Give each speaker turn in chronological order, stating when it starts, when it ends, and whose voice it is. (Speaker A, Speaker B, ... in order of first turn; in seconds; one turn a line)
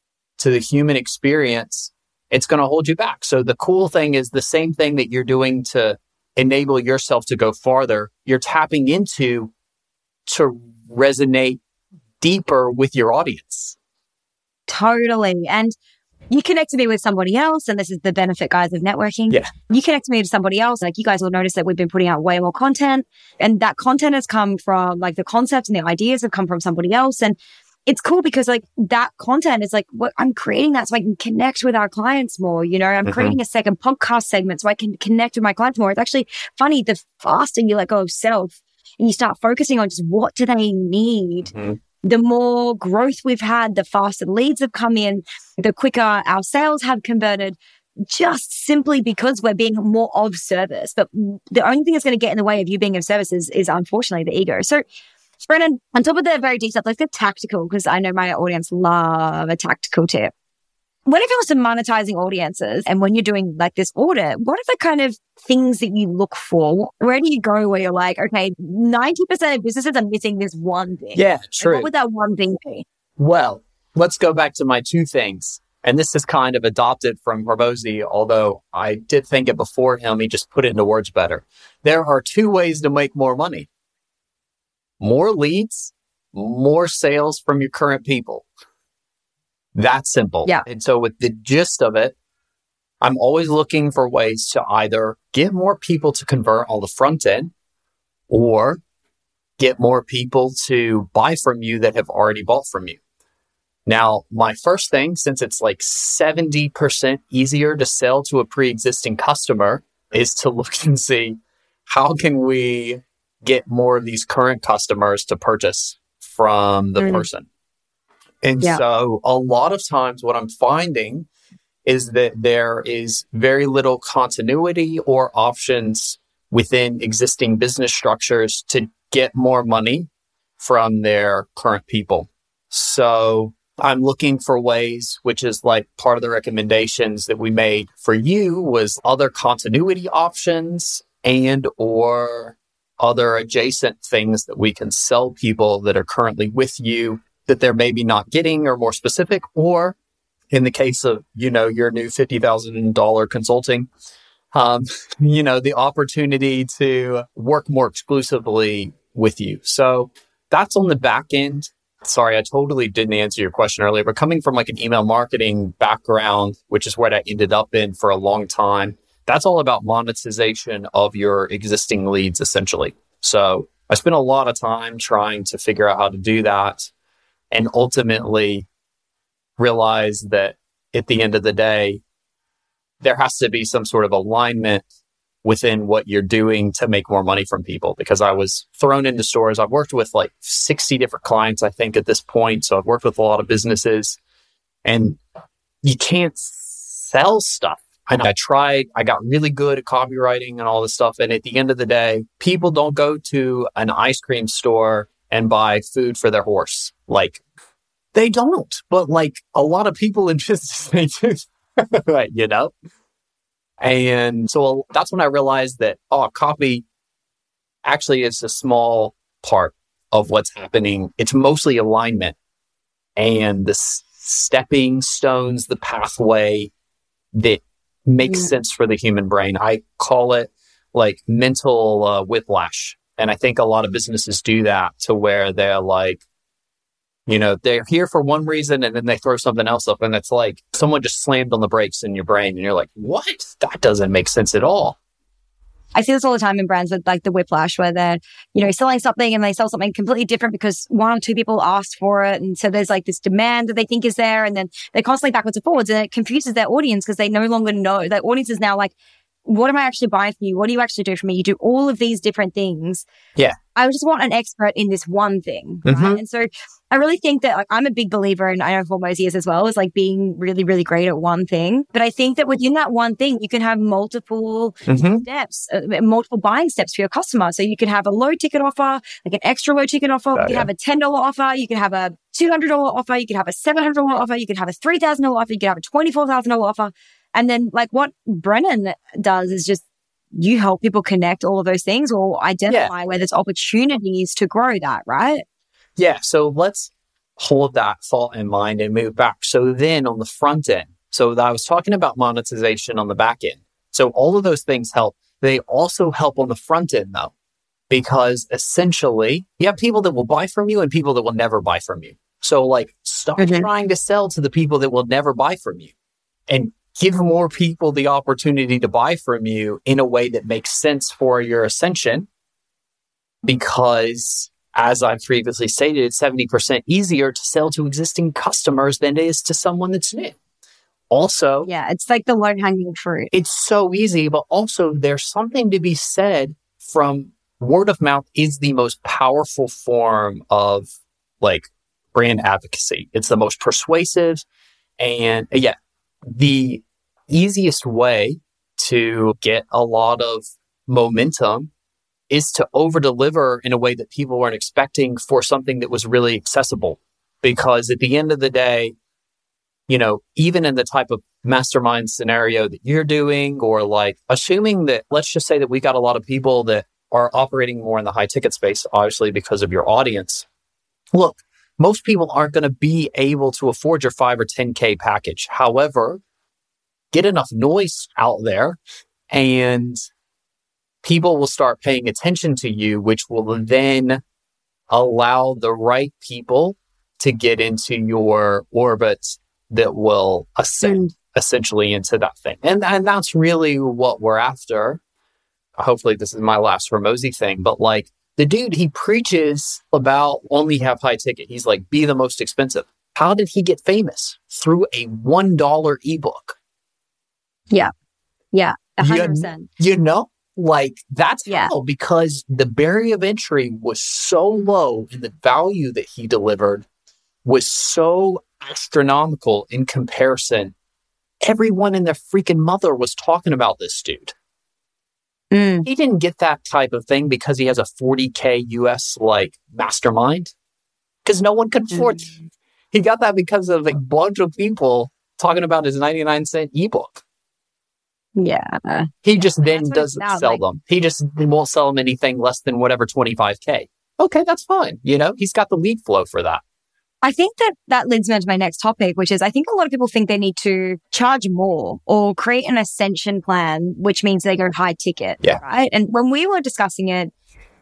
Speaker A: 0.4-9.5
Speaker A: 10.2-11.6
Speaker A: 12.2-13.8
Speaker B: 14.7-15.7
Speaker B: 16.3-54.8
Speaker A: 33.0-33.4
Speaker A: 41.5-41.8
Speaker B: 55.4-60.3
Speaker B: 61.0-72.8
Speaker A: 71.1-71.9
Speaker A: 73.2-83.7
Speaker A: 85.0-88.5
Speaker A: 89.7-92.1
Speaker A: 93.0-97.5
Speaker A: 98.3-98.8
Speaker A: 99.6-103.0
Speaker A: 103.8-117.5
Speaker B: 117.0-117.2
Speaker A: 118.4-121.3
Speaker A: 121.8-130.1
Speaker A: 130.6-149.9
Speaker A: 150.5-153.9
Speaker A: 154.5-176.9
Speaker A: 177.5-178.7
Speaker A: 179.6-182.0
Speaker A: 183.0-184.8
Speaker A: 185.4-194.2
Speaker A: 194.8-195.2
Speaker A: 195.8-207.4
Speaker A: 208.1-212.7
Speaker A: 213.8-216.8
Speaker A: 217.8-222.3
Speaker A: 223.2-226.7
Speaker A: 227.3-236.2
Speaker B: 228.2-228.5
Speaker A: 237.3-245.0
Speaker B: 245.9-258.9
Speaker B: 259.4-263.1
Speaker B: 263.7-289.8
Speaker A: 265.9-266.2
Speaker A: 274.9-275.2
Speaker A: 280.4-280.7
Speaker B: 290.3-295.4
Speaker A: 296.0-307.3
Speaker A: 307.9-315.9
Speaker B: 313.4-313.7
Speaker A: 316.5-322.3
Speaker A: 323.4-330.4
Speaker A: 331.1-331.7
Speaker B: 331.6-333.3
Speaker A: 333.3-340.9
Speaker A: 341.4-344.4
Speaker A: 345.0-351.7
Speaker A: 352.3-358.9
Speaker A: 359.9-370.4
Speaker A: 371.1-376.2
Speaker A: 377.1-378.8
Speaker A: 379.3-380.0
Speaker A: 381.0-384.2
Speaker A: 384.9-395.0
Speaker B: 390.8-391.1
Speaker A: 395.8-406.6
Speaker B: 408.5-409.7
Speaker A: 409.0-416.9
Speaker A: 417.4-420.7
Speaker A: 421.4-424.3
Speaker B: 425.5-425.9
Speaker A: 425.8-430.5
Speaker A: 431.2-432.3
Speaker B: 431.9-432.2
Speaker A: 432.9-437.2
Speaker B: 438.4-440.6
Speaker A: 439.2-446.6
Speaker B: 447.2-457.3